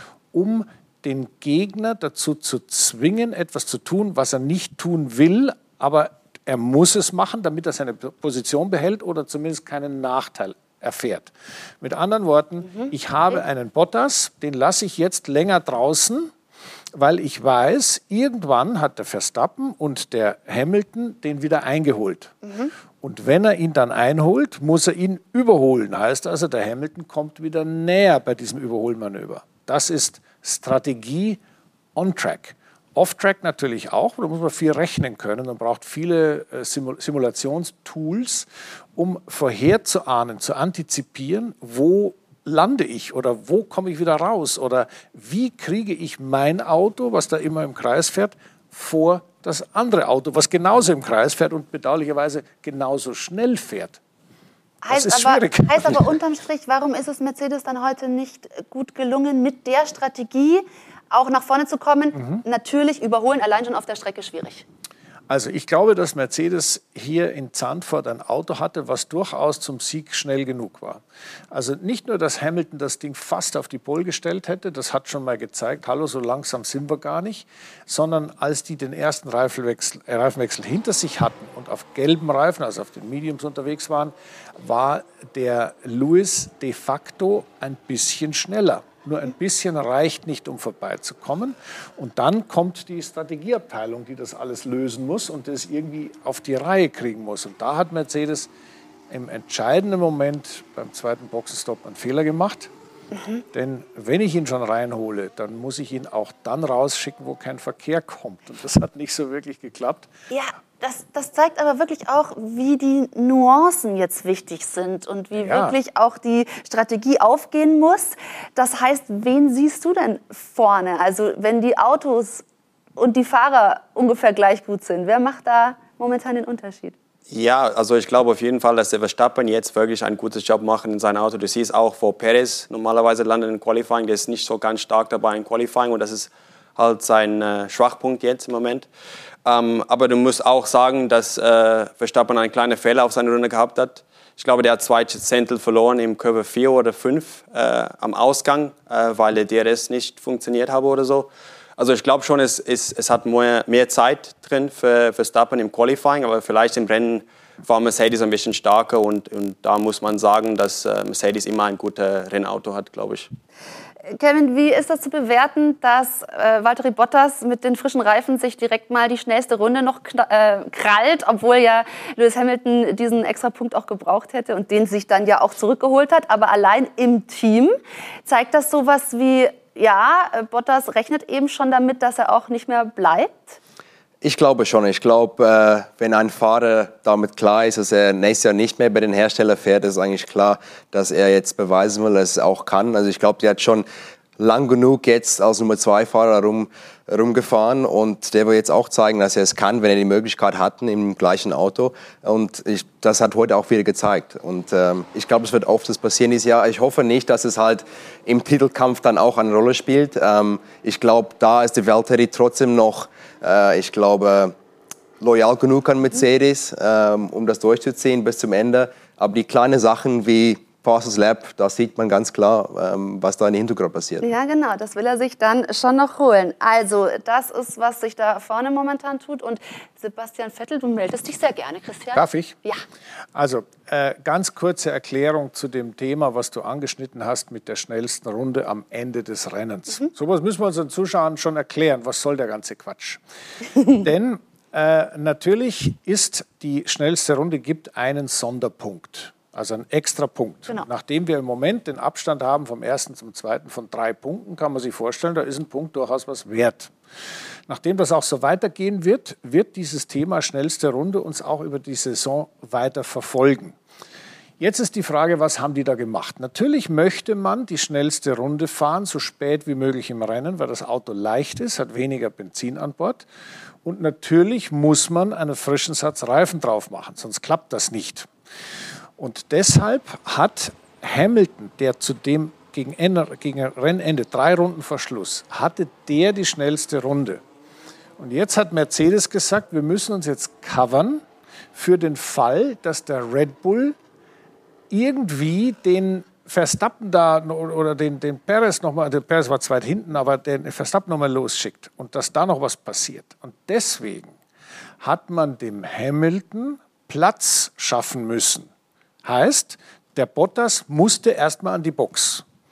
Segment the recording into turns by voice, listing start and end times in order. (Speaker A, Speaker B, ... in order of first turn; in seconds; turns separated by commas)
Speaker A: 0.3-16.3, Speaker B: 12.7-13.3, Speaker A: 16.9-22.4, Speaker B: 22.4-22.7, Speaker A: 23.0-31.4, Speaker A: 31.9-54.0, Speaker B: 54.8-64.7, Speaker A: 54.9-56.2, Speaker A: 62.1-62.4, Speaker A: 65.3-98.5, Speaker A: 99.1-102.7, Speaker B: 103.1-103.4, Speaker A: 103.5-110.1, Speaker B: 110.3-122.4, Speaker A: 115.3-115.7, Speaker B: 123.0-126.9, Speaker C: 127.3-138.9, Speaker C: 139.4-163.3, Speaker B: 164.1-183.6, Speaker D: 184.2-193.8, Speaker D: 194.4-214.5, Speaker D: 215.2-224.2, Speaker B: 224.2-232.8, Speaker A: 232.1-232.6, Speaker A: 233.3-243.2, Speaker A: 243.9-256.9, Speaker A: 257.7-263.8, Speaker A: 264.6-273.2, Speaker A: 273.8-278.3, Speaker A: 279.2-287.4, Speaker A: 288.2-291.2, Speaker A: 291.7-293.9, Speaker A: 294.9-304.3, Speaker A: 305.0-308.7, Speaker A: 309.2-312.4